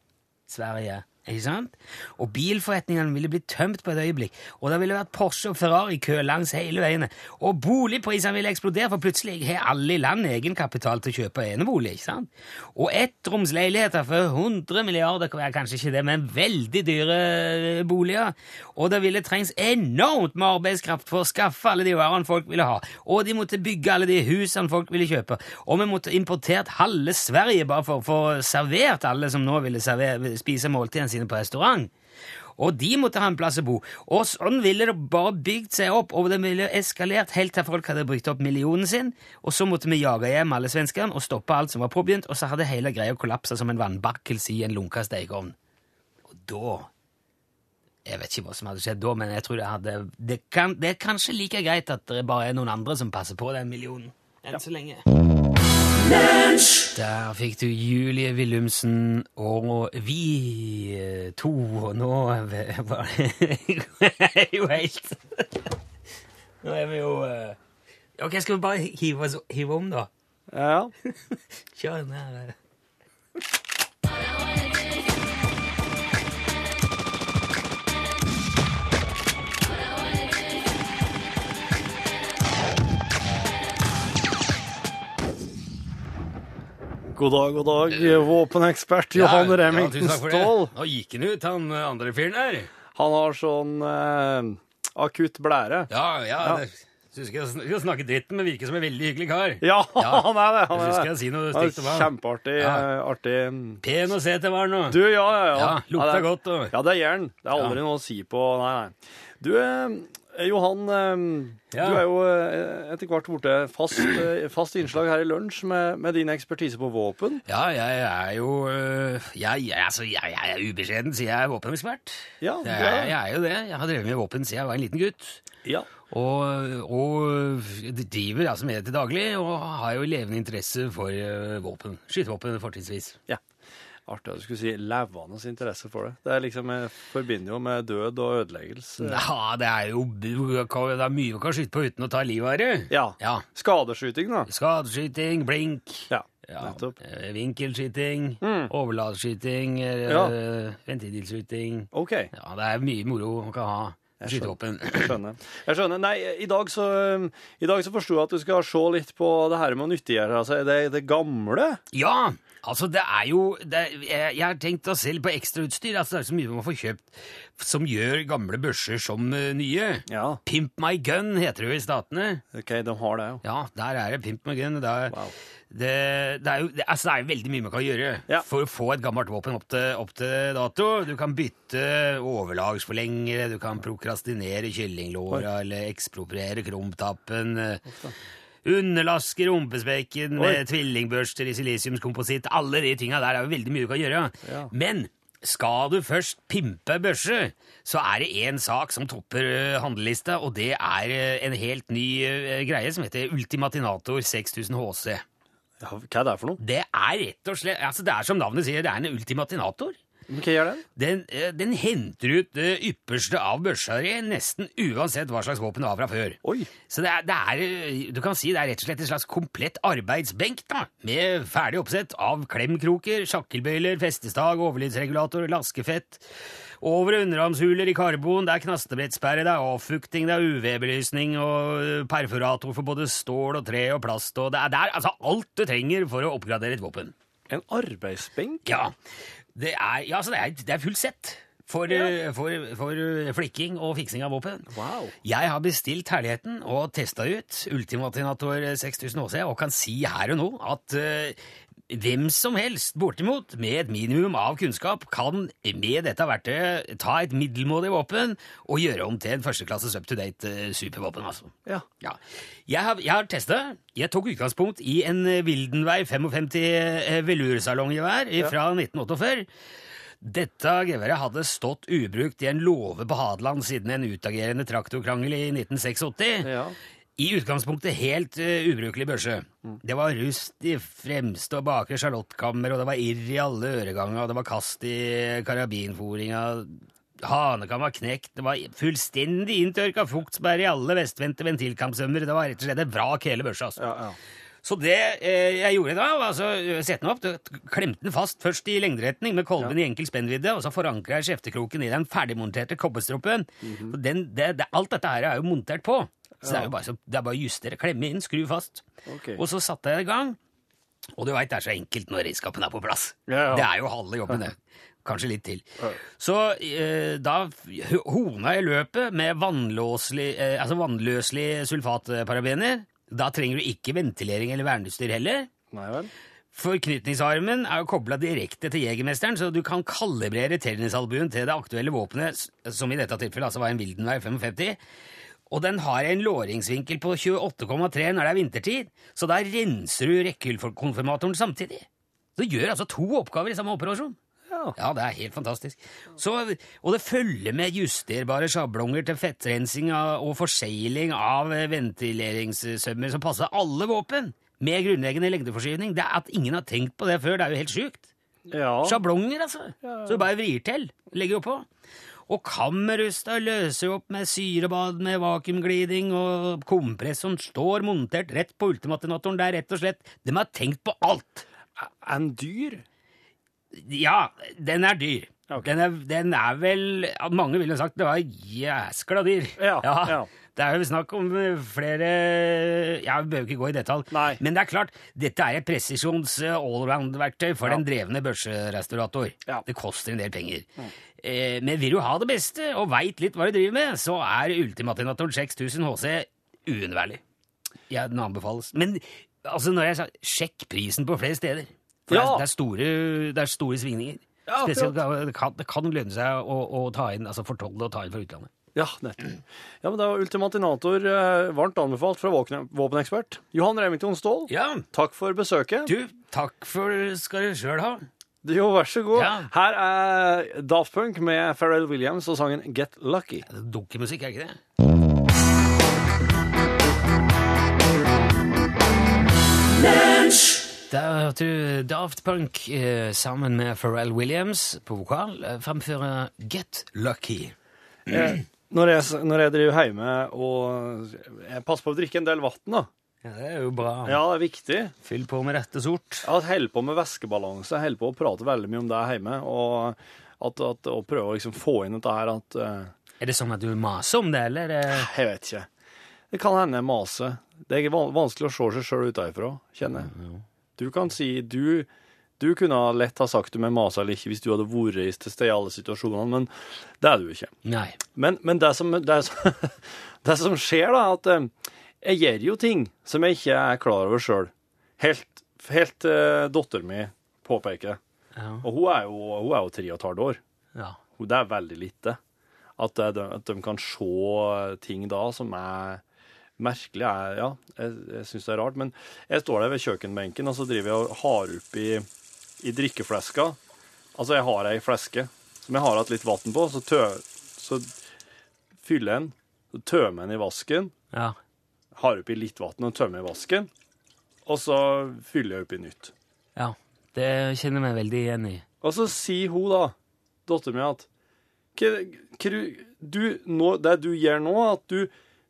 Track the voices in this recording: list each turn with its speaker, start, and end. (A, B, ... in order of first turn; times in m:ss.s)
0:00.5-0:31.9 A
0:32.6-0:45.5 A
0:46.3-0:46.9 A
0:48.0-0:55.0 A
0:56.9-1:05.6 A
1:06.6-1:07.6 A
1:08.2-1:10.1 A
1:10.5-1:10.9 B
1:11.1-1:12.6 A
1:27.1-1:30.7 B
1:29.1-1:32.7 A
1:32.9-1:35.9 B
1:35.9-1:42.9 A
1:39.6-1:43.8 B
1:43.8-1:46.8 A
1:44.9-1:57.4 B
1:51.7-1:52.1 A
1:57.4-2:05.4 A
2:02.4-2:03.1 B
2:05.6-2:05.9 B
2:06.1-2:13.2 A
2:14.1-2:19.2 B
2:19.0-2:23.4 A
2:22.9-2:24.5 B
2:24.5-2:35.1 A
2:26.1-2:27.0 B
2:28.4-2:28.7 B
2:30.0-2:30.3 B
2:31.9-2:32.3 B
2:34.2-2:41.8 B
2:41.9-2:52.4 A
2:50.1-2:50.4 B
2:52.5-2:53.4 B
2:53.4-2:55.2 A
2:55.1-2:55.3 B
2:55.7-3:07.8 A
3:07.8-3:08.1 B
3:08.6-3:25.2 A
3:10.4-3:10.6 B
3:14.4-3:14.7 B
3:25.8-3:26.6 B
3:26.6-3:30.0 A
3:30.3-3:30.8 B
3:31.0-3:46.2 A
3:36.4-3:36.7 B
3:46.8-3:57.1 A
3:57.5-3:58.6 B
3:58.6-3:58.9 A
3:59.6-4:04.7 A
4:01.9-4:02.2 B
4:04.7-4:05.2 B
4:05.2-4:11.4 A
4:11.9-4:29.5 A
4:30.2-4:36.5 A
4:36.4-4:36.7 B
4:37.2-4:53.9 A
4:53.8-4:54.2 B
4:54.6-5:08.8 A
5:03.6-5:04.0 B
5:06.4-5:06.7 B
5:09.1-5:09.4 B
5:09.4-5:10.4 A
5:11.2-5:25.5 A
5:13.3-5:13.7 B
5:25.7-5:26.1 B
5:26.5-5:34.8 A
5:35.5-5:41.8 A
5:42.4-5:44.2 A
5:44.5-5:44.8 B
5:44.8-5:58.1 A
5:58.5-5:59.0 B
5:58.8-6:01.7 A
5:59.8-6:00.2 B
6:02.3-6:11.4 A
6:11.8-6:12.8 B
6:13.7-6:37.2 A
6:19.6-6:20.3 B
6:24.1-6:24.4 B
6:37.9-6:48.5 A
6:42.1-6:42.4 B
6:44.4-6:45.0 B
6:48.7-6:49.3 B
6:49.8-6:55.9 B
6:54.5-6:54.8 A
6:55.8-6:58.1 A
6:58.4-7:03.4 B
6:59.1-6:59.5 A
7:03.4-7:04.6 A
7:10.9-7:17.6 A
7:18.1-7:22.9 B
7:18.1-7:18.4 A
7:23.2-7:24.2 A
7:24.0-7:24.9 B
7:25.0-7:26.3 A
7:26.2-7:32.9 B
7:33.2-7:35.1 A
7:34.9-7:35.7 B
7:36.3-7:40.1 B
7:39.9-7:40.4 A
7:40.8-7:41.9 B
7:42.4-7:47.5 B
7:47.6-7:48.0 A
7:48.1-7:58.0 B
7:58.3-7:58.7 A
7:58.6-8:00.4 B
8:01.2-8:02.2 B
8:02.8-8:06.0 B
8:06.6-8:12.1 B
8:12.6-8:13.6 B
8:14.2-8:17.9 B
8:18.8-8:20.9 B
8:21.1-8:21.4 A
8:21.9-8:23.7 B
8:24.4-8:26.1 B
8:26.6-8:28.6 A
8:28.8-8:29.9 B
8:30.4-8:31.1 B
8:31.7-8:35.1 B